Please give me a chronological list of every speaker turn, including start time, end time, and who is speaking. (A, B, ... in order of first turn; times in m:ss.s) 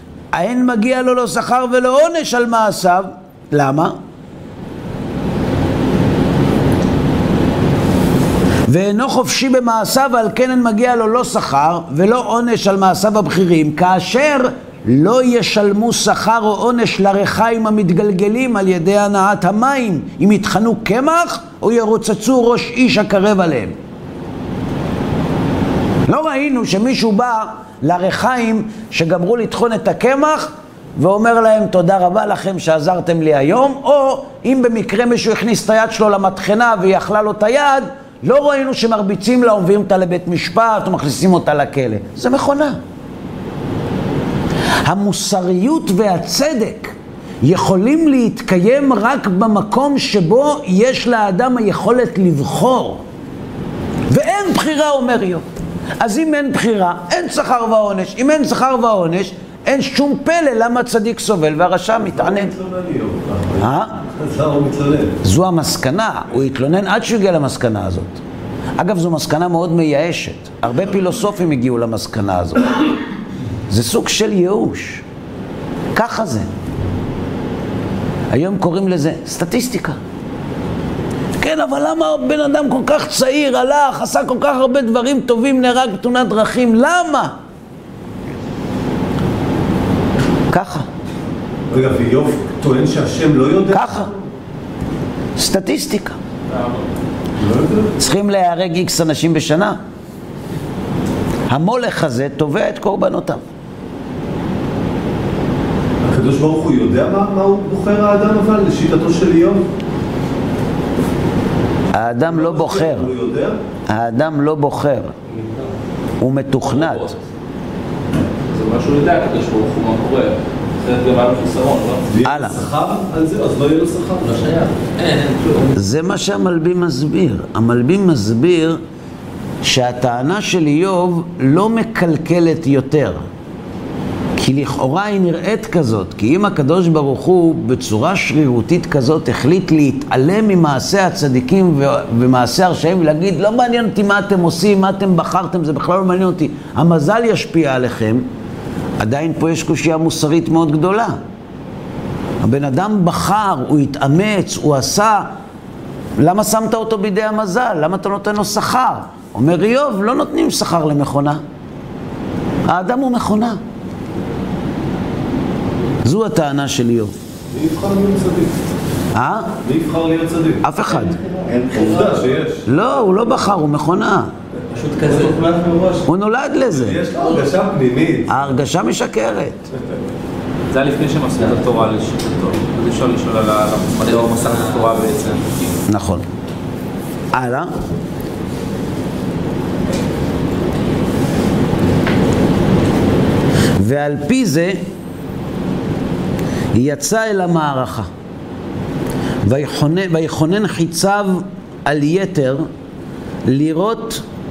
0:00.3-0:04.0 A
0:08.7-0:23.8 A
0:26.1-0:42.8 A
0:44.8-0:53.0 A
0:54.1-0:55.4 A
0:56.0-1:02.5 A
1:02.0-1:05.2 B
1:03.6-1:04.0 A
1:05.2-1:08.2 A
1:08.8-1:12.6 A
1:13.7-1:15.0 A
1:15.9-1:16.5 A
1:18.3-1:20.0 A
1:21.4-1:27.3 A
1:30.5-1:30.9 A
1:31.7-1:34.2 B
1:33.7-1:34.1 A
1:35.4-1:36.2 A
1:36.5-1:36.8 C
1:37.4-1:38.0 B
1:38.0-1:39.8 A
1:41.5-1:43.4 A
1:46.0-1:49.6 B
1:51.9-1:53.1 A
1:52.2-1:53.6 B
1:53.9-1:55.2 A
1:56.2-1:57.1 A
1:56.8-1:57.1 C
1:58.5-2:02.0 C
2:02.1-2:04.4 B
2:02.2-2:02.6 A
2:04.2-2:05.7 D
2:05.7-2:08.8 A
2:09.6-2:13.2 A
2:14.4-2:28.2 A
2:29.0-2:31.2 A
2:32.4-2:35.3 A
2:36.2-2:41.4 A
2:42.7-2:43.6 A
2:46.0-2:47.1 A
2:47.5-2:48.6 B
2:49.1-2:49.6 A
2:49.6-2:50.7 B
2:50.6-2:51.2 A
2:51.4-2:52.2 D
2:51.7-2:52.7 B
2:52.6-2:54.3 A
2:54.7-2:55.4 D
2:55.0-2:56.1 B
2:56.0-2:57.0 A
2:56.7-2:58.4 B
2:58.3-2:59.6 A
3:00.7-3:05.6 C
3:04.1-3:04.8 D
3:05.9-3:06.2 A
3:07.3-3:07.8 A
3:13.8-3:14.8 A
3:16.7-3:18.1 A
3:19.4-3:22.7 A
3:23.4-3:24.2 A